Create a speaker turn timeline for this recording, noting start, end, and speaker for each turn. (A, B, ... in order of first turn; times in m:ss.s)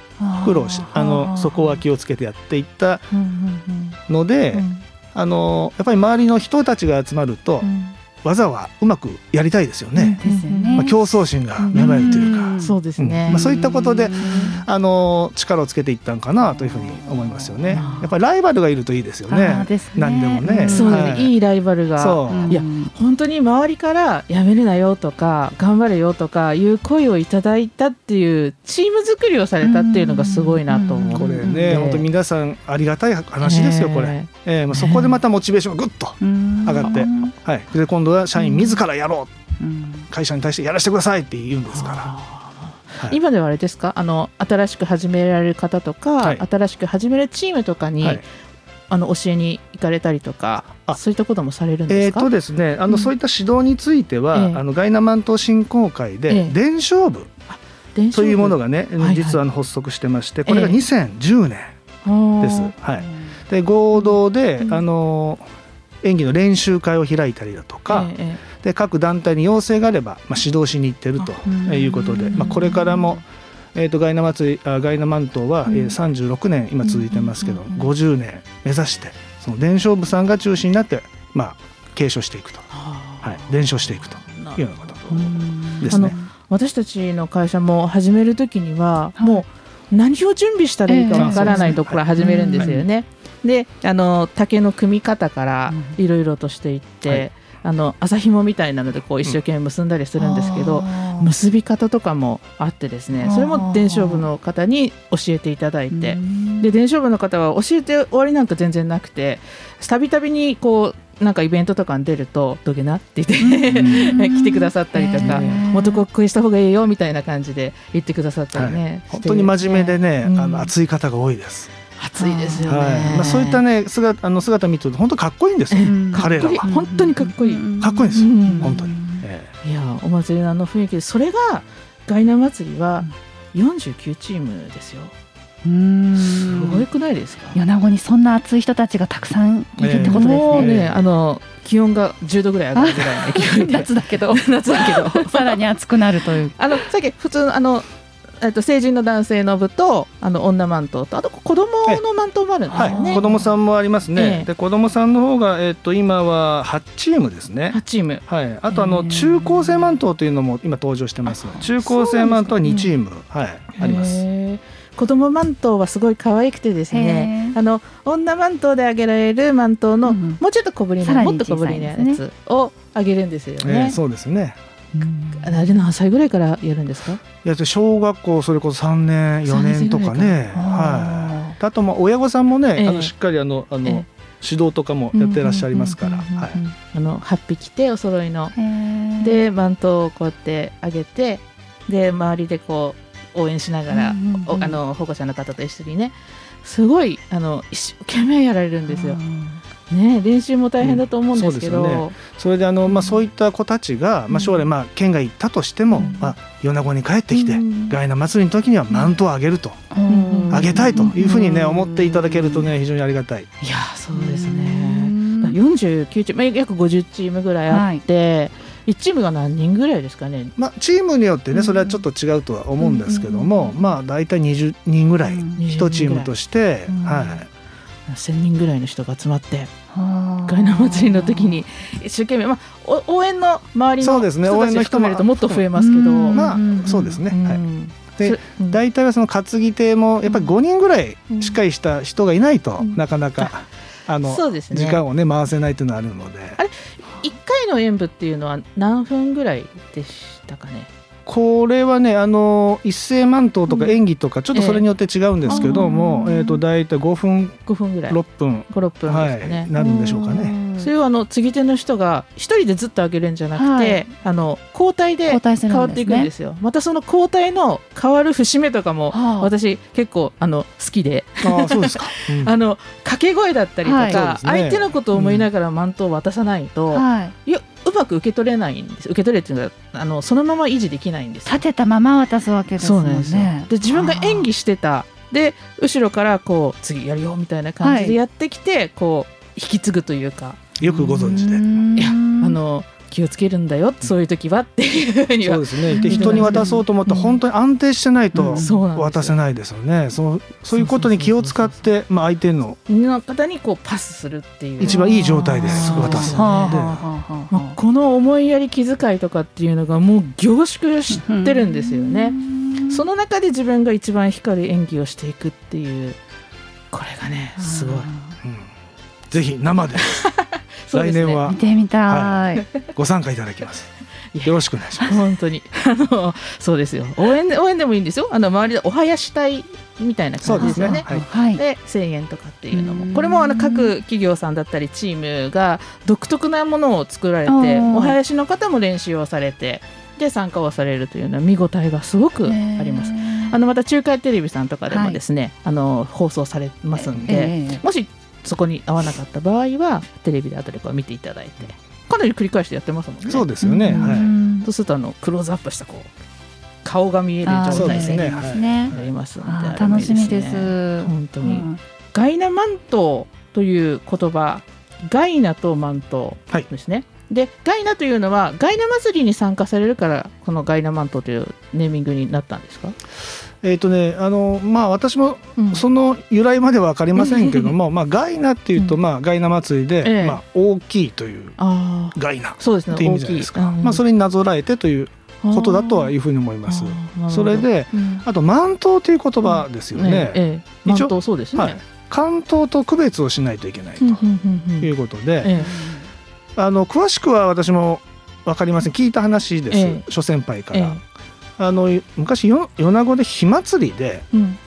0:00.2-0:01.8 A
0:00.4-0:03.1 B
0:03.1-0:04.0 C
0:04.1-0:07.7 B
0:04.5-0:04.8 C
0:07.6-0:08.0 C
0:08.2-0:10.2 B
0:10.0-0:10.9 C
0:10.2-0:11.1 A
0:10.8-0:21.3 B
0:11.6-0:14.6 C
0:11.7-0:14.6 A
0:16.4-0:18.1 A
0:17.7-0:18.1 C
0:19.3-0:21.0 A
0:20.6-0:32.0 C
0:22.0-0:22.6 B
0:22.3-0:22.9 A
0:29.6-0:32.0 A
0:31.1-0:39.3 B
0:33.4-0:34.3 C
0:34.7-0:35.2 A
0:36.2-0:37.3 A
0:38.4-0:38.8 A
0:39.6-0:40.1 A
0:40.1-0:42.1 B
0:41.7-0:48.2 C
0:48.9-0:52.3 C
0:51.9-0:57.3 B
0:54.3-0:54.6 C
0:56.3-0:56.6 C
0:57.5-0:59.4 C
0:58.1-1:01.8 B
1:00.4-1:00.8 C
1:02.0-1:02.7 C
1:02.4-1:05.5 B
1:03.0-1:03.4 A
1:06.0-1:13.2 B
1:07.9-1:08.4 C
1:11.4-1:13.2 A
1:12.3-1:12.8 C
1:13.8-1:22.7 B
1:15.7-1:16.0 A
1:16.8-1:17.4 A
1:17.4-1:17.9 C
1:22.7-2:00.7 C
1:23.2-1:26.2 B
1:25.1-1:26.2 A
1:29.2-1:29.4 A
1:30.9-1:32.8 A
1:31.2-1:32.8 B
1:35.7-1:36.0 A
1:40.2-1:41.3 A
1:43.2-1:44.3 A
1:45.9-1:46.7 A
1:53.4-1:56.0 A
1:55.2-1:55.5 B
1:58.5-2:01.7 B
2:02.0-2:03.6 C
2:02.2-2:03.2 A
2:02.7-2:06.7 B
2:05.7-2:08.8 C
2:05.8-2:09.2 A
2:07.8-2:09.5 B
2:09.6-2:15.1 C
2:15.6-2:16.8 A
2:16.3-2:17.6 C
2:17.5-2:20.7 A
2:19.8-2:21.0 B
2:19.9-2:25.6 C
2:22.8-2:26.8 A
2:26.6-2:27.9 C
2:28.4-2:33.2 C
2:32.7-2:33.5 A
2:32.7-2:44.2 B
2:34.2-2:34.5 C
2:37.7-2:39.1 C
2:38.9-2:40.0 A
2:41.3-2:42.6 A
2:41.6-2:42.9 C
2:43.8-2:54.0 C
2:46.9-2:47.6 A
2:50.0-2:50.4 A
2:51.0-2:52.2 A
2:53.6-2:54.6 B
2:54.9-2:55.8 A
2:55.4-2:57.2 C
2:57.4-3:06.6 B
2:59.5-3:00.3 C
3:00.5-3:01.6 A
3:02.8-3:03.1 C
3:05.1-3:08.5 C
3:08.6-3:09.4 A
3:09.2-3:19.2 C
3:13.9-3:14.8 A
3:18.9-3:19.6 A
3:19.9-3:22.2 C
3:20.8-3:29.9 B
3:24.3-3:24.7 A
3:26.0-3:26.3 C
3:26.0-3:26.3 A
3:27.3-3:27.8 C
3:27.6-3:27.9 A
3:29.9-3:32.7 A
3:30.1-3:31.1 C
3:30.5-3:33.5 B
3:33.6-3:40.5 C
3:34.1-3:35.6 A
3:37.7-3:38.0 A
3:40.6-3:47.5 B
3:41.5-3:42.0 A
3:43.1-3:43.7 C
3:45.2-3:45.6 A
3:45.6-3:46.3 C
3:46.9-3:47.4 C
3:48.1-3:49.7 C
3:49.9-3:51.6 A
3:50.5-3:56.5 C
3:54.0-3:55.6 B
3:55.8-3:57.2 A
3:56.3-3:57.6 B
3:57.3-3:58.8 C
3:58.1-4:06.6 B
4:00.2-4:00.5 A
4:01.3-4:01.6 C
4:02.8-4:03.5 C
4:04.2-4:05.0 C
4:06.6-4:10.9 C
4:11.3-4:20.6 B
4:14.5-4:14.8 C
4:15.5-4:15.9 C
4:15.5-4:16.6 A
4:17.7-4:19.7 C
4:19.8-4:20.9 A
4:20.8-4:41.6 C
4:23.6-4:24.0 A
4:25.3-4:26.3 A
4:29.1-4:29.5 A
4:31.4-4:32.5 B
4:33.8-4:34.2 A
4:34.1-4:35.4 B
4:36.9-4:37.3 A
4:41.5-4:44.5 A
4:42.8-4:50.7 C
4:47.8-4:48.2 A
4:50.8-4:51.6 B
4:50.8-4:52.6 A
4:52.0-4:57.3 C
4:55.4-5:02.8 B
4:55.9-4:57.4 A
4:58.3-4:58.8 A
4:58.5-4:59.4 C
5:00.7-5:01.8 C
5:02.9-5:05.1 C
5:04.8-5:07.0 B
5:04.9-5:07.8 A
5:05.6-5:06.9 C
5:07.5-5:12.4 C
5:11.1-5:13.0 A
5:12.9-5:16.2 C
5:16.9-5:18.1 C
5:17.6-5:18.3 A
5:18.4-5:18.7 B
5:19.3-5:20.3 B
5:20.0-5:21.5 C
5:20.9-5:23.9 B
5:21.5-5:22.7 A
5:24.3-5:56.1 C
5:24.4-5:25.2 B
5:30.4-5:31.3 B
5:30.5-5:31.6 A
5:32.7-5:33.9 A
5:37.5-5:38.2 A
5:42.5-5:43.6 A
5:44.9-5:45.2 A
5:46.9-5:47.8 A
5:53.3-5:54.3 B
5:53.6-5:54.7 A
5:56.8-6:13.0 C
5:57.5-6:01.8 A
5:57.7-5:59.0 B
6:13.6-6:21.6 B
6:15.6-6:15.8 C
6:17.2-6:17.7 C
6:20.0-6:20.4 C
6:21.6-6:24.0 C
6:22.1-6:34.2 B
6:25.4-6:26.1 C
6:26.7-6:28.2 C
6:29.4-6:31.8 C
6:34.0-6:34.9 C
6:34.8-6:35.6 B
6:35.4-6:35.7 C
6:35.6-6:36.1 A
6:36.6-6:41.0 B
6:39.7-6:40.0 C
6:40.7-6:41.0 C
6:41.6-6:44.3 B
6:44.3-6:44.6 C